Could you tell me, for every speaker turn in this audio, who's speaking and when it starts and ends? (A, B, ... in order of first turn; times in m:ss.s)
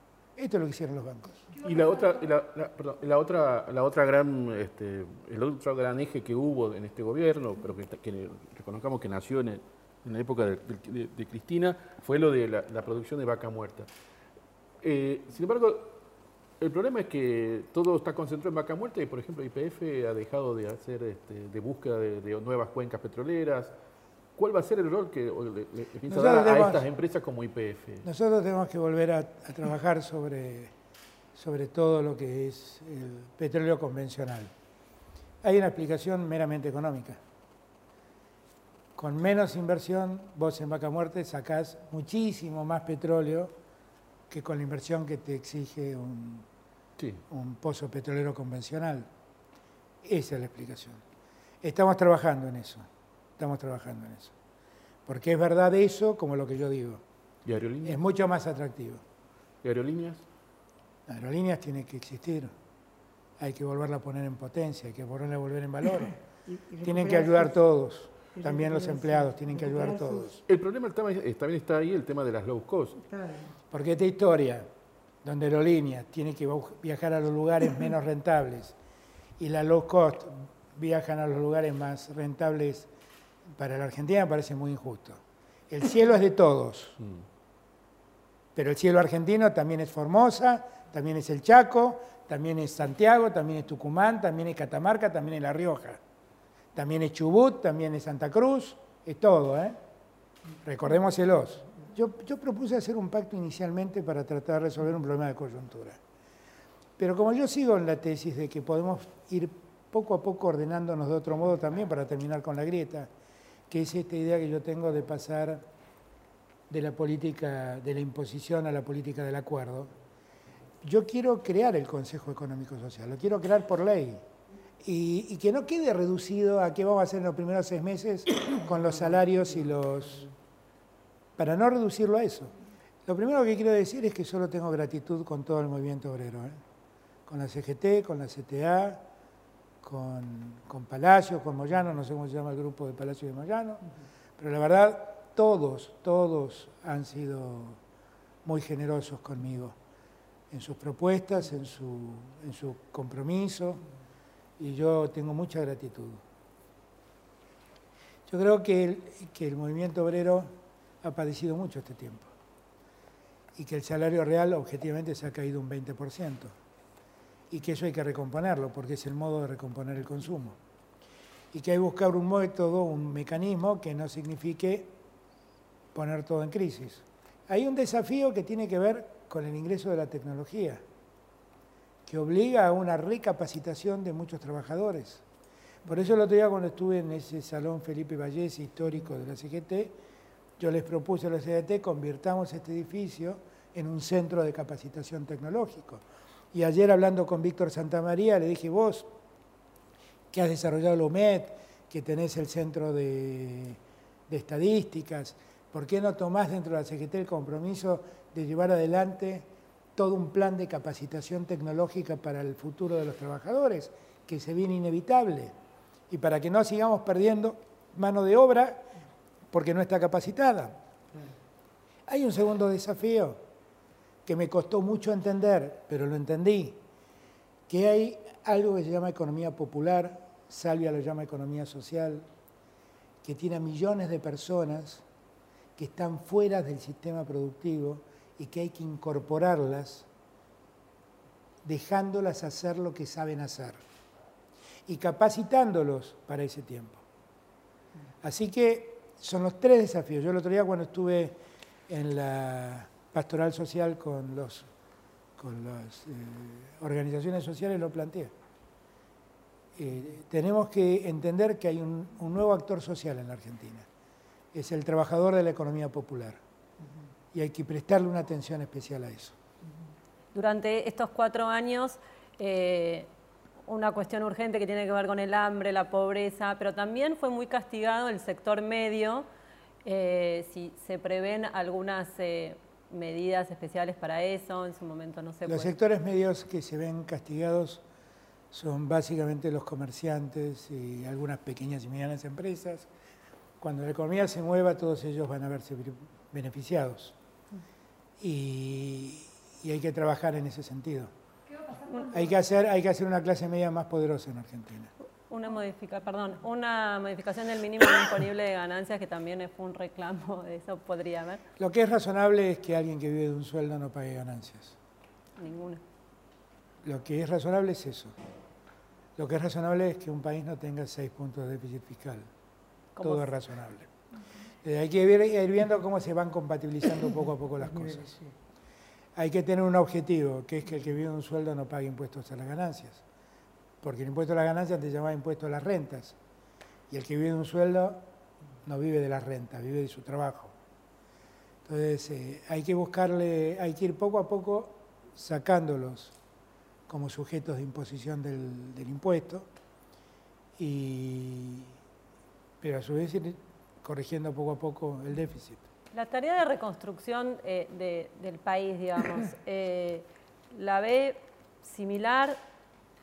0:00.4-0:01.5 A
0:01.6-0:13.9 B
0:14.8-0:16.0 B
0:16.6-0:23.7 B
0:24.3-0:28.1 B
0:26.1-0:26.8 A
0:28.0-0:30.7 A
0:31.3-0:34.5 A
0:35.4-0:37.2 A
0:39.0-0:43.5 A
0:44.3-0:46.5 A
0:47.0-0:47.2 B
0:47.3-0:49.1 A
0:50.0-0:51.0 A
0:51.6-0:52.9 A
0:53.4-0:54.3 A
0:55.0-0:57.0 A
0:57.4-0:58.0 B
0:57.8-0:59.0 A
0:59.6-1:00.2 B
1:01.1-1:02.5 A
1:03.4-1:06.2 A
1:06.4-1:07.6 C
1:06.8-1:10.4 A
1:08.3-1:10.3 C
1:10.5-1:13.0 B
1:13.0-1:13.5 C
1:13.7-1:14.7 A
1:15.2-1:18.7 A
1:19.4-1:22.9 A
1:23.5-1:27.0 A
1:28.6-1:36.0 A
1:36.7-1:39.8 A
1:40.6-1:46.0 A
1:47.0-1:53.1 A
1:53.7-1:55.6 A
1:56.7-1:59.9 A
2:00.8-2:04.2 A
2:04.8-2:10.3 A
2:11.4-2:12.5 A
2:13.0-2:16.6 A
2:17.3-2:19.0 A
2:19.8-2:23.8 A
2:24.4-2:27.8 A
2:28.4-2:29.8 A
2:30.5-2:33.8 A
2:34.6-2:36.2 A
2:38.3-2:42.3 A
2:43.6-2:46.5 A
2:47.5-2:50.6 A
2:51.5-2:55.0 A
2:55.9-3:00.8 A
3:02.0-3:05.2 A
3:05.8-3:09.9 A
3:10.6-3:19.1 A
3:20.3-3:35.5 A
3:36.1-3:38.9 A
3:39.5-3:40.8 A
3:42.1-3:43.4 A
3:44.2-3:46.8 A
3:47.7-3:52.3 A
3:53.2-3:55.0 A
3:55.8-4:00.1 A
4:01.6-4:03.8 A
4:04.9-4:07.0 A
4:08.2-4:11.4 A
4:11.9-4:14.7 A
4:15.4-4:18.3 A
4:19.8-4:23.9 A
4:24.5-4:26.4 A
4:27.3-4:29.4 A
4:30.3-4:33.1 D
4:33.7-4:39.2 D
4:39.8-4:45.7 D
4:45.5-4:47.8 A
4:48.5-4:52.9 A
4:53.6-4:57.2 A
4:58.2-5:01.1 A
5:02.1-5:04.9 A
5:05.3-5:11.4 D
5:11.6-5:14.8 A
5:15.4-5:15.8 D
5:16.8-5:18.1 A
5:19.2-5:22.3 A
5:23.0-5:23.2 D
5:23.0-5:23.9 A
5:24.6-5:28.2 A
5:27.8-5:28.3 C
5:29.2-5:33.0 A
5:33.8-5:36.2 A
5:36.9-5:38.0 A
5:38.6-5:40.5 A
5:41.6-5:46.1 A
5:46.9-5:49.5 A
5:50.6-5:51.7 A
5:52.6-5:55.6 A
5:55.9-6:02.4 D